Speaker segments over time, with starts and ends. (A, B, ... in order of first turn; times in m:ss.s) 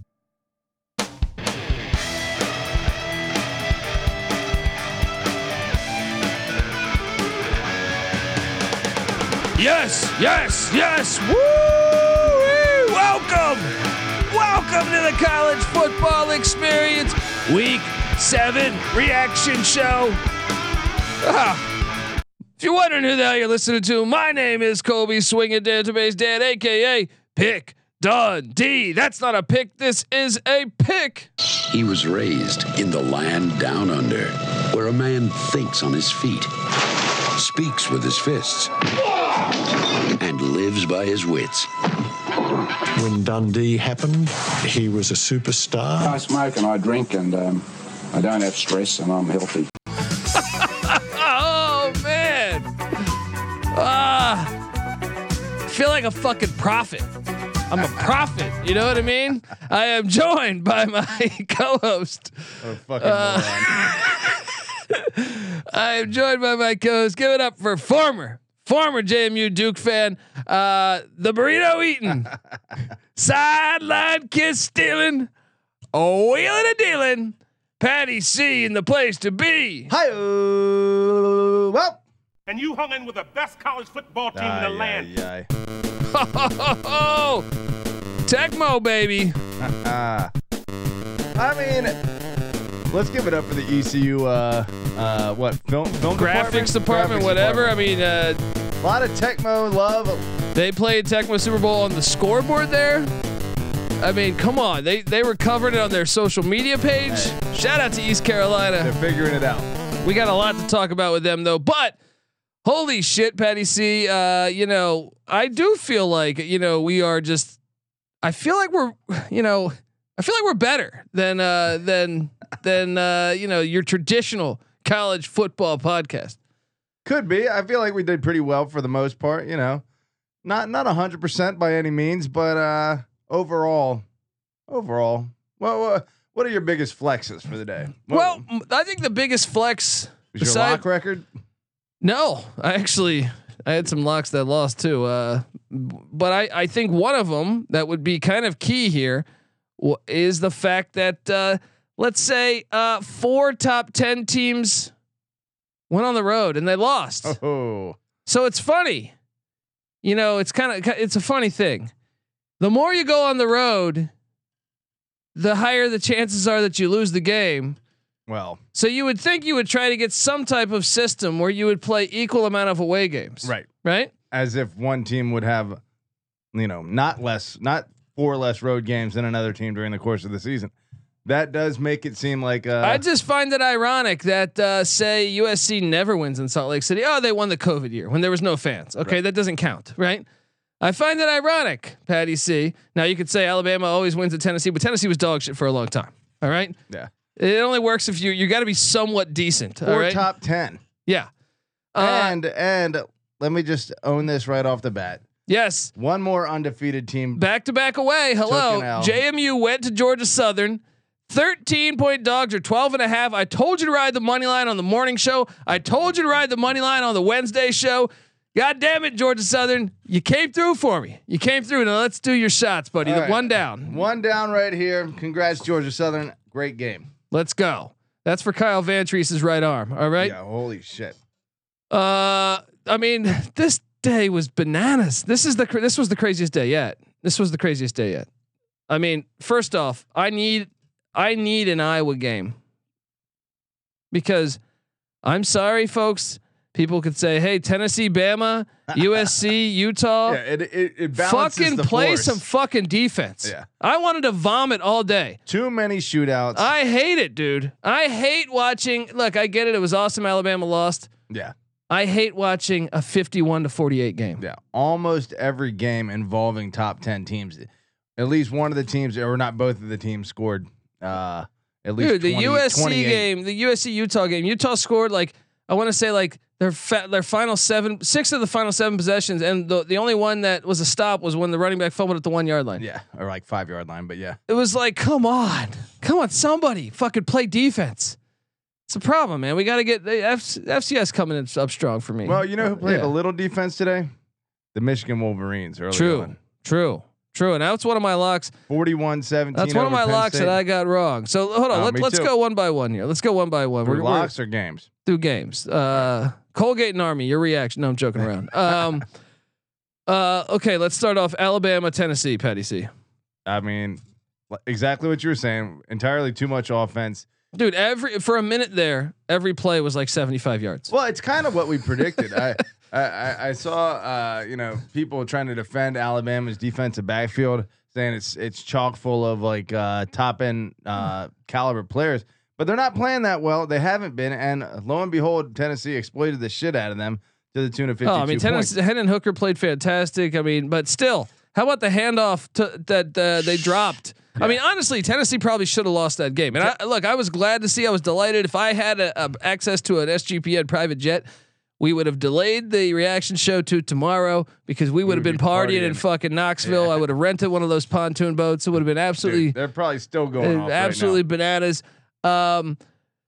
0:09.6-0:13.7 A
0:14.3-0:20.2 A
0:21.2-0:21.7 A
0:22.6-0:31.3 A
0:31.6-0:36.5 B
0:37.2-0:38.8 B
0:40.2-0:41.7 B
0:42.9-0:46.2 C
0:46.0-0:49.7 D
0:50.3-0:52.7 A
0:53.7-0:54.5 A
0:55.7-0:57.1 A
0:57.7-1:02.3 A
1:02.6-1:03.7 E
1:03.0-1:12.3 A
1:13.1-1:15.3 A
1:15.9-1:19.9 A
1:19.9-1:22.0 E
1:22.5-1:25.1 F
1:24.3-1:25.5 E
1:26.1-1:27.5 A
1:28.3-1:29.4 A
1:29.6-1:30.3 E
1:31.4-1:32.0 E
1:32.9-1:37.8 E
1:36.1-1:38.4 A
1:38.8-1:40.3 E
1:40.6-1:43.1 A
1:44.0-1:48.9 A
1:47.1-1:47.4 E
1:48.8-1:49.7 E
1:50.0-1:52.0 A
1:52.6-1:57.6 A
1:58.2-2:06.4 A
2:07.0-2:09.8 E
2:10.4-2:14.0 E
2:14.7-2:18.4 E
2:18.1-2:20.8 A
2:20.3-2:21.3 E
2:22.0-2:29.2 A
2:29.8-2:34.9 A
2:35.9-2:37.4 A
2:37.2-2:38.0 E
2:38.2-2:39.1 A
2:40.0-2:41.9 A
2:42.6-2:44.1 A
2:45.4-2:47.8 A
2:48.3-2:48.6 E
2:48.7-2:54.1 A
2:53.4-2:53.7 E
2:54.3-2:55.8 E
2:56.5-3:00.7 E
3:01.2-3:03.0 E
3:02.8-3:10.2 A
3:10.8-3:16.8 A
3:17.4-3:20.2 A
3:19.8-3:20.8 E
3:21.0-3:21.3 A
3:21.9-3:22.4 A
3:22.0-3:25.2 E
3:25.5-3:25.9 A
3:26.0-3:27.4 E
3:27.4-3:44.0 A
3:28.4-3:29.2 E
3:43.0-3:47.1 E
3:47.3-3:50.4 A
3:50.2-3:51.2 E
3:51.9-3:58.3 A
3:58.9-4:02.6 A
4:04.1-4:04.6 A
4:05.2-4:10.4 A
4:08.9-4:09.3 E
4:10.2-4:12.4 E
4:11.1-4:15.4 A
4:15.4-4:16.7 E
4:16.6-4:21.1 A
4:21.9-4:24.4 A
4:24.4-4:33.2 E
4:32.0-4:42.8 A
4:42.8-4:44.4 E
4:44.5-4:48.2 A
4:48.9-4:53.1 A
4:52.2-4:54.1 E
4:54.7-4:56.4 E
4:55.9-4:58.5 A
4:58.7-5:00.6 E
4:59.6-5:04.3 A
5:01.7-5:02.3 E
5:03.8-5:04.9 E
5:05.0-5:09.1 A
5:10.1-5:12.9 A
5:13.4-5:17.3 E
5:17.5-5:20.9 A
5:20.9-5:38.7 E
5:38.0-5:51.3 A
5:51.8-5:59.6 A
5:55.1-5:56.0 E
5:56.6-5:57.0 E
5:59.2-6:01.2 E
6:00.4-6:02.8 A